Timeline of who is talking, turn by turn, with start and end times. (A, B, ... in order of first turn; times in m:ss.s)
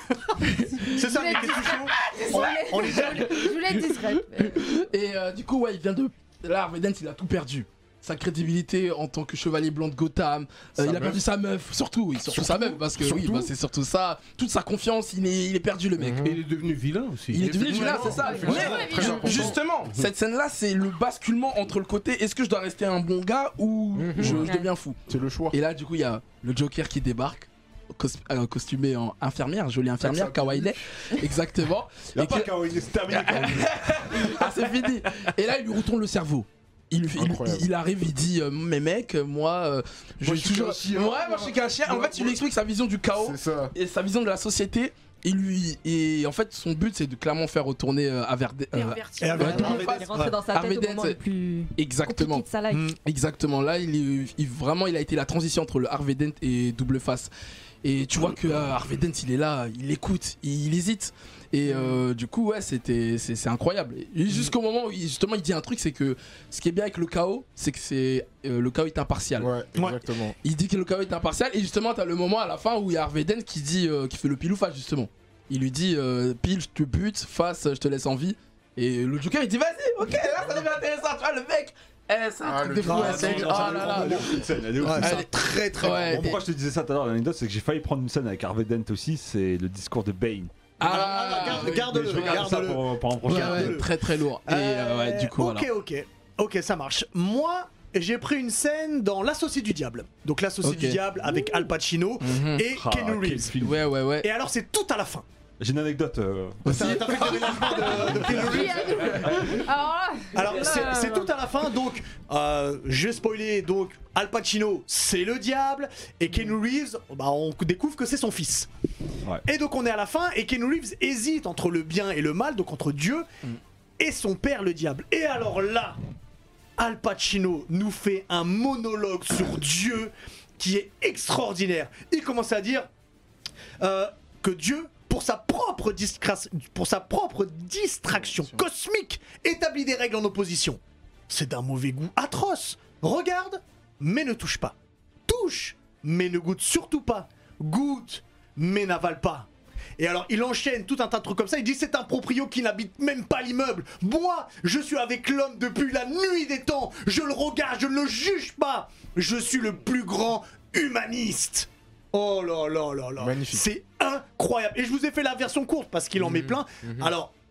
0:00.4-0:01.0 A
0:00.6-0:04.6 B
0:00.9-0:03.4 C
0:02.0-0:16.3 A
0:10.8-0:11.2 D
0:12.3-0:13.5 D
0:16.0-0:16.4 D
0:16.2-0:17.9 E
0:17.3-0:25.0 A
0:17.3-0:19.6 D
0:18.1-0:19.5 B
0:19.8-0:20.1 E
0:23.9-0:24.5 D
0:25.1-0:25.6 D
0:25.5-0:32.5 A
0:30.0-0:30.8 D
0:32.1-0:34.4 F
0:33.1-0:51.2 A
0:37.2-0:37.7 D
0:40.2-0:42.4 D
0:43.2-0:43.7 D
0:48.7-0:49.9 B
0:49.2-0:50.4 C
0:49.4-0:52.9 G
0:51.8-0:52.5 A
0:52.7-0:53.0 C
0:53.0-0:57.3 A
0:57.8-1:09.5 A
1:09.4-1:10.4 D
1:09.7-1:10.0 C
1:10.4-1:26.4 A
1:22.4-1:24.4 D
1:22.8-1:23.3 C
1:22.9-1:30.5 F
1:24.8-1:26.3 C
1:30.8-1:32.6 A
1:30.8-1:33.9 C
1:31.3-1:33.8 F
1:33.2-1:35.7 A
1:34.4-1:43.5 C
1:40.6-1:41.0 A
1:42.2-1:42.6 A
1:42.7-1:43.9 F
1:43.6-1:44.3 A
1:44.2-1:45.2 C
1:45.6-1:49.5 F
1:46.6-1:47.8 A
1:46.6-1:49.5 C
1:48.1-1:51.3 B
1:50.3-1:58.7 C
1:59.4-2:03.2 C
2:04.0-2:06.0 C
2:06.8-2:12.9 C
2:13.8-2:24.7 C
2:25.3-2:29.5 C
2:30.0-2:47.3 C
2:43.2-2:43.6 D
2:46.2-2:47.1 D